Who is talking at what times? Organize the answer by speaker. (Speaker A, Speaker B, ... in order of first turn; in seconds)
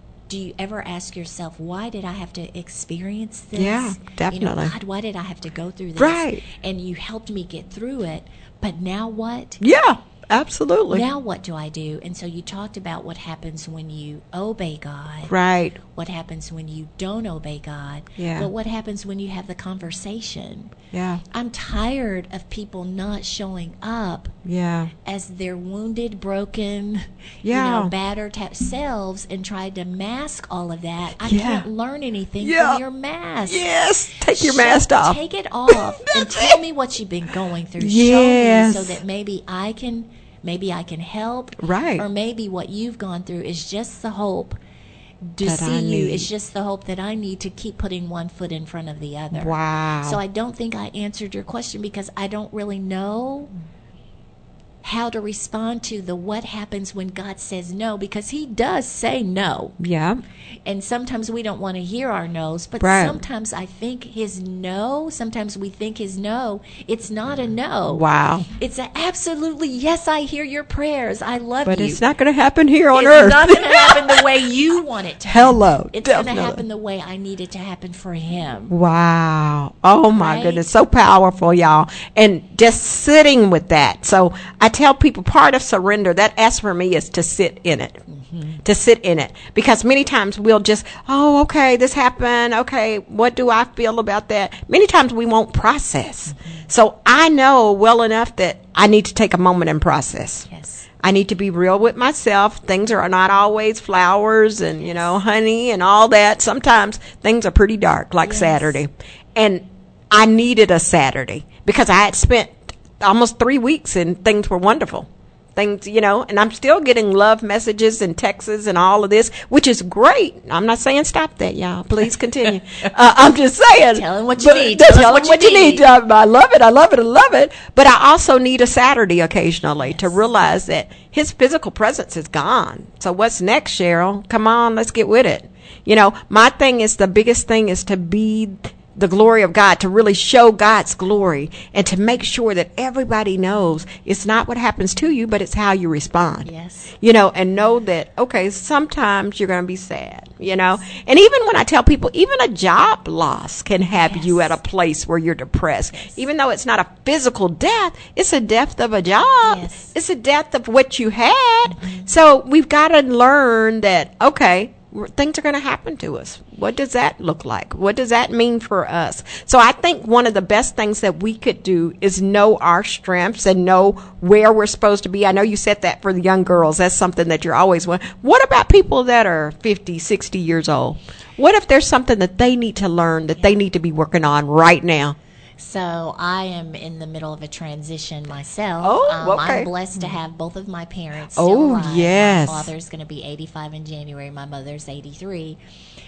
Speaker A: 0.3-9.6, 10.9-15.3, 15.9-20.7, 21.3-24.3, 25.0-33.6, 34.3-44.6, 45.3-49.5, 50.0-53.5, 54.8-59.8, 60.6-68.0, 68.6-72.0, 72.9-78.7, 80.1-80.6, 88.1-88.6, 96.3-96.6, 100.5-100.8, 108.2-108.8, 123.9-125.8, 129.8-130.2, 146.4-146.9, 154.0-154.5, 159.4-159.9, 161.7-162.1, 185.6-195.6
Speaker B: 3.5-4.7, 6.0-6.4, 9.6-11.0, 15.3-15.8, 18.2-18.5, 20.9-21.2, 24.4-24.9, 27.4-27.9, 31.2-31.6, 32.4-32.8, 33.5-36.6, 37.8-39.0, 41.6-42.0, 45.4-46.3, 49.3-50.2, 59.8-60.2, 62.8-63.2, 67.9-68.5, 71.6-74.2, 75.2-76.6, 78.7-88.0, 88.6-100.5, 101.0-146.5, 147.0-185.2, 188.8-190.1, 191.3-192.7